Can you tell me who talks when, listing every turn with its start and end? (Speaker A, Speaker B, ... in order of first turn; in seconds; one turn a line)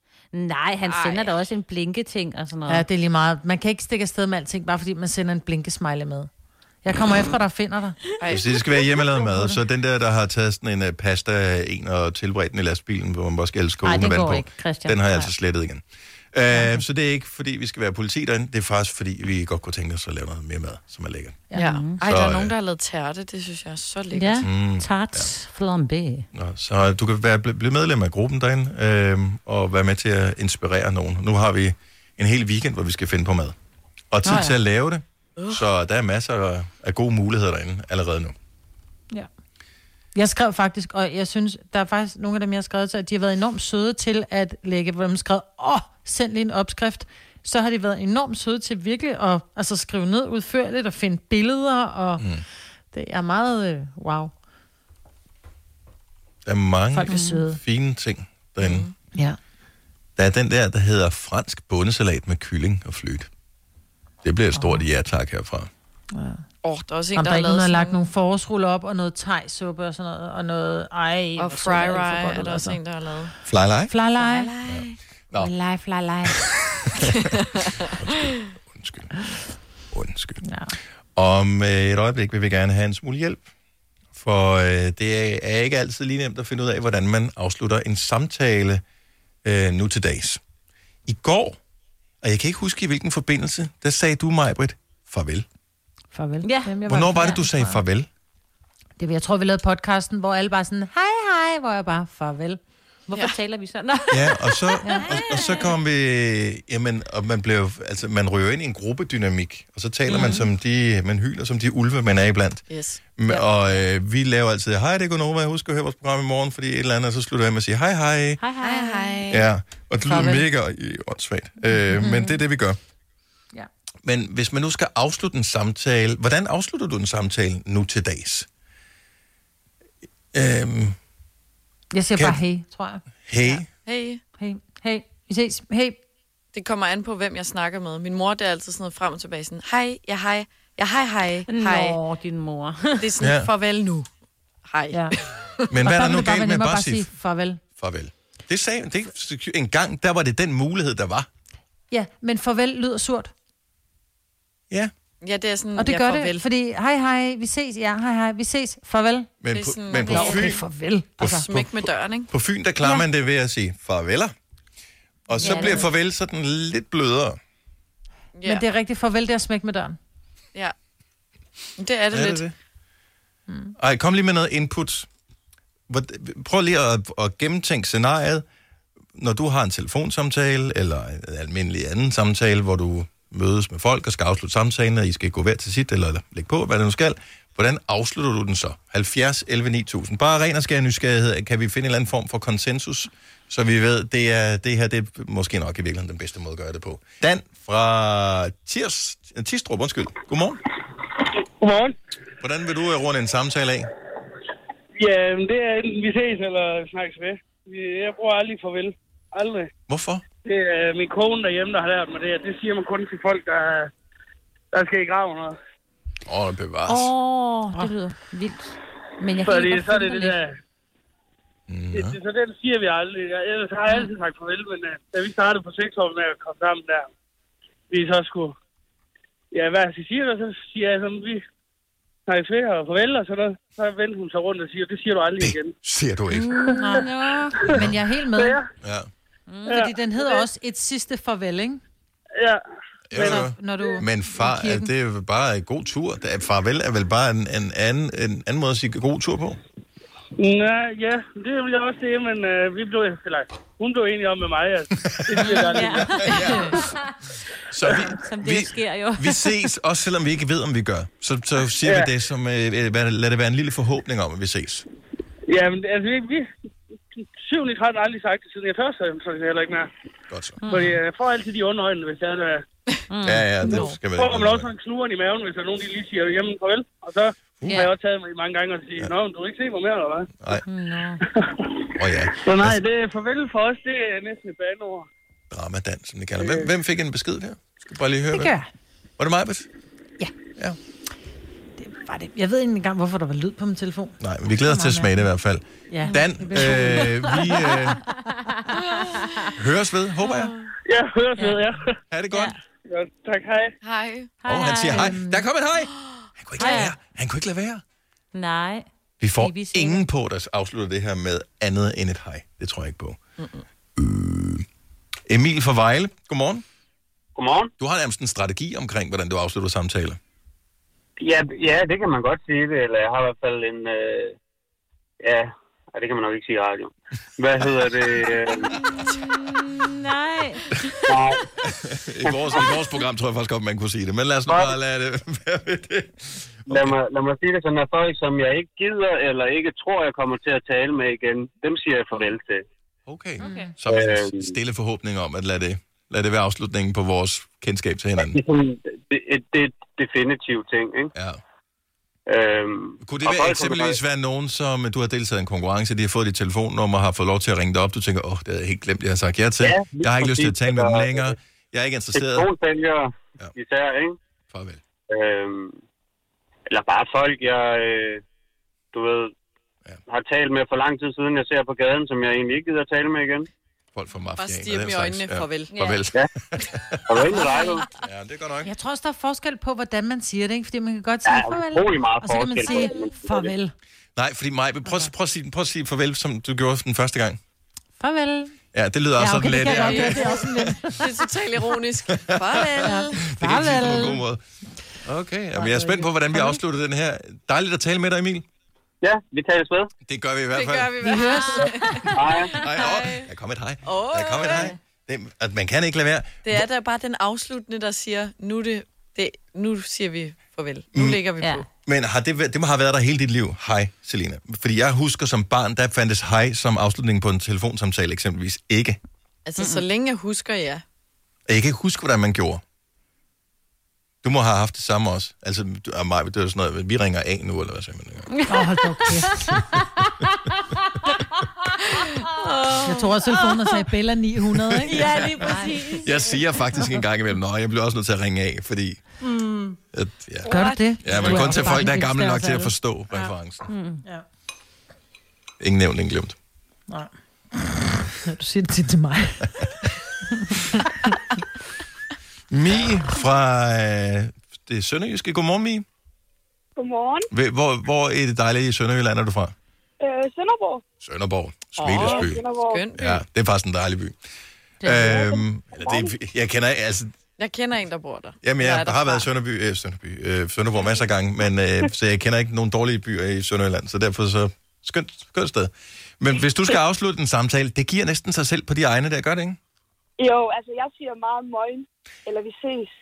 Speaker A: 0.3-2.9
Speaker B: 0.8-1.4
Speaker C: 2.7-6.3
Speaker C: 6.8-8.1
Speaker B: 8.2-8.6
Speaker D: 8.3-15.8
Speaker A: 13.8-15.3
Speaker D: 16.3-21.4
Speaker A: 21.5-22.0
Speaker B: 21.6-24.5
Speaker D: 22.0-22.5
Speaker A: 24.1-26.3
Speaker D: 24.4-25.3
Speaker D: 26.3-33.6
Speaker D: 34.1-38.4
Speaker A: 34.3-34.5
Speaker C: 40.1-52.2
Speaker D: 52.2-52.4
Speaker C: 52.9-54.3
Speaker D: 56.5-58.9
Speaker C: 56.9-57.6
Speaker A: 57.1-57.4
Speaker B: 58.6-58.9
Speaker D: 60.2-63.3
Speaker D: 64.2-65.7
Speaker C: 66.1-66.4
Speaker B: 66.6-68.0
Speaker C: 67.2-72.8
Speaker B: 71.4-73.3
Speaker D: 73.5-73.9
Speaker C: 73.9-74.5
Speaker B: 74.2-75.0
Speaker D: 74.7-75.5
Speaker C: 75.3-76.4
Speaker D: 76.3-77.3
Speaker B: 77.3-77.9
Speaker D: 77.9-79.1
Speaker D: 79.9-80.4
Speaker C: 80.4-80.7
Speaker D: 81.2-83.4
Speaker D: 84.1-88.8
Speaker D: 89.4-90.4
Speaker D: 91.1-91.6
Speaker D: 92.2-95.5
Speaker C: 96.1-97.8
Speaker A: 96.4-97.4
Speaker D: 96.9-98.1
Speaker C: 99.0-102.6
Speaker A: 103.1-105.7
Speaker D: 104.1-112.6
Speaker C: 104.8-105.1
Speaker B: 110.1-110.4
Speaker A: 110.1-110.5
Speaker B: 112.7-113.1
Speaker D: 113.2-118.4
Speaker A: 118.4-119.3
Speaker B: 118.6-119.5
Speaker D: 119.3-122.8
Speaker B: 120.1-120.4
Speaker D: 124.0-128.5
Speaker D: 130.3-131.0
Speaker C: 131.9-133.0
Speaker D: 133.3-133.7
Speaker B: 133.8-134.2
Speaker C: 134.4-136.0
Speaker B: 136.5-142.0
Speaker A: 141.5-143.1
Speaker B: 143.0-144.1
Speaker D: 143.2-143.5
Speaker B: 144.7-145.7
Speaker D: 145.7-147.1
Speaker C: 145.8-147.6
Speaker D: 147.8-151.3
Speaker C: 151.9-153.3
Speaker B: 155.2-156.4
Speaker C: 155.8-159.3
Speaker D: 159.4-160.6
Speaker B: 159.5-160.5
Speaker C: 160.1-161.5
Speaker D: 161.2-164.3
Speaker B: 161.2-162.3
Speaker D: 165.3-167.4
Speaker A: 165.4-165.8
Speaker C: 165.4-165.8
Speaker B: 168.3-168.7
Speaker C: 168.4-170.0
Speaker B: 171.8-172.5
Speaker D: 172.1-172.5
Speaker D: 173.8-175.1
Speaker D: 175.9-178.4
Speaker D: 179.2-200.6
Speaker E: 201.6-201.9
Speaker D: 202.4-203.9
Speaker E: 205.0-209.7
Speaker D: 209.9-210.2
Speaker E: 210.4-213.9
Speaker E: 214.7-215.6
Speaker D: 216.3-217.1
Speaker A: 216.9-220.4
Speaker E: 219.4-220.6
Speaker D: 221.7-222.2
Speaker E: 221.9-227.1
Speaker E: 227.9-228.6
Speaker E: 229.5-231.4
Speaker E: 232.3-235.7
Speaker D: 235.4-236.5
Speaker A: 236.3-237.6
Speaker C: 236.8-238.6
Speaker E: 238.3-238.7
Speaker D: 238.8-239.1
Speaker A: 239.5-239.8
Speaker C: 239.7-241.8
Speaker E: 239.7-240.5
Speaker D: 243.1-249.6
Speaker E: 243.1-244.0
Speaker C: 243.2-244.9
Speaker E: 250.4-256.2
Speaker D: 255.1-256.9
Speaker A: 255.4-257.1
Speaker B: 256.3-256.8
Speaker D: 257.7-264.9
Speaker A: 257.9-259.5
Speaker E: 261.8-262.1
Speaker E: 265.5-266.5
Speaker E: 267.4-269.9
Speaker D: 270.3-270.6
Speaker A: 270.6-271.0
Speaker E: 270.7-272.6
Speaker A: 273.1-274.0
Speaker D: 273.2-274.7
Speaker E: 274.1-280.3
Speaker D: 277.6-277.9
Speaker A: 277.6-277.9
Speaker A: 280.6-281.2
Speaker E: 281.3-285.1
Speaker D: 281.9-282.8
Speaker D: 285.5-288.5
Speaker E: 286.4-286.7
Speaker C: 288.3-288.7
Speaker D: 289.2-289.7
Speaker C: 291.8-295.2
Speaker D: 294.2-298.0
Speaker C: 295.9-297.4
Speaker A: 298.7-299.5
Speaker D: 299.6-300.5
Speaker B: 300.3-300.6
Speaker E: 300.9-301.9
Speaker D: 302.1-302.6
Speaker A: 302.3-302.6
Speaker E: 302.9-303.7
Speaker B: 303.8-304.3
Speaker A: 304.4-305.2
Speaker D: 304.5-307.8
Speaker C: 304.9-305.4
Speaker A: 306.6-307.0
Speaker A: 308.3-310.1
Speaker D: 309.2-313.2
Speaker B: 313.4-313.6
Speaker D: 314.0-314.7
Speaker D: 315.3-316.6
Speaker F: 317.4-317.7
Speaker D: 317.8-320.2
Speaker F: 321.2-324.4
Speaker F: 325.2-328.7
Speaker A: 328.8-330.6
Speaker F: 331.1-331.4
Speaker D: 331.7-336.9
Speaker F: 334.5-334.7
Speaker F: 336.7-342.6
Speaker D: 343.1-348.4
Speaker A: 343.4-343.7
Speaker C: 343.4-343.7
Speaker F: 343.9-344.5
Speaker F: 348.2-351.1
Speaker D: 351.1-351.4
Speaker F: 352.3-354.0
Speaker D: 353.0-362.5
Speaker F: 359.6-361.4
Speaker F: 362.1-364.2
Speaker D: 364.5-364.8
Speaker F: 365.1-365.8
Speaker F: 366.7-368.2
Speaker F: 368.9-369.3
Speaker F: 370.1-373.5
Speaker D: 373.9-377.3
Speaker B: 374.4-375.8
Speaker A: 375.7-376.0
Speaker F: 377.1-377.9
Speaker A: 377.4-377.8
Speaker D: 378.0-378.7
Speaker C: 378.6-383.7
Speaker F: 381.2-383.5
Speaker D: 384.2-387.4
Speaker C: 388.0-388.5
Speaker D: 388.7-390.8
Speaker C: 389.2-391.0
Speaker B: 389.6-390.4
Speaker B: 390.9-393.2
Speaker D: 392.2-394.4
Speaker C: 392.8-394.2
Speaker D: 395.0-398.5
Speaker C: 395.6-396.6
Speaker F: 399.0-399.9
Speaker D: 400.1-401.2
Speaker B: 400.5-403.3
Speaker C: 401.1-401.5
Speaker A: 401.1-402.1
Speaker F: 402.1-402.5
Speaker D: 402.5-406.7
Speaker B: 403.9-404.7
Speaker B: 406.4-411.7
Speaker D: 410.9-411.2
Speaker D: 411.9-419.0
Speaker B: 419.4-420.8
Speaker A: 419.6-419.8
Speaker D: 421.5-422.6
Speaker D: 424.2-428.3
Speaker C: 428.5-429.4
Speaker A: 429.5-430.1
Speaker A: 432.2-432.9
Speaker B: 432.4-433.1
Speaker C: 432.8-435.7
Speaker D: 434.7-439.0
Speaker A: 434.9-436.4
Speaker C: 439.2-439.8
Speaker D: 439.9-443.7
Speaker C: 440.5-443.3
Speaker A: 440.5-441.9
Speaker A: 443.7-444.0
Speaker D: 445.6-446.4
Speaker C: 446.9-449.5
Speaker D: 452.5-455.9
Speaker G: 456.8-457.3
Speaker D: 457.3-459.5
Speaker G: 460.0-460.8
Speaker D: 461.0-462.4
Speaker B: 461.8-463.2
Speaker G: 462.1-462.8
Speaker D: 462.9-464.2
Speaker A: 464.8-465.4
Speaker D: 464.8-467.1
Speaker G: 465.8-466.1
Speaker B: 467.4-469.3
Speaker D: 468.4-479.6
Speaker G: 480.2-482.9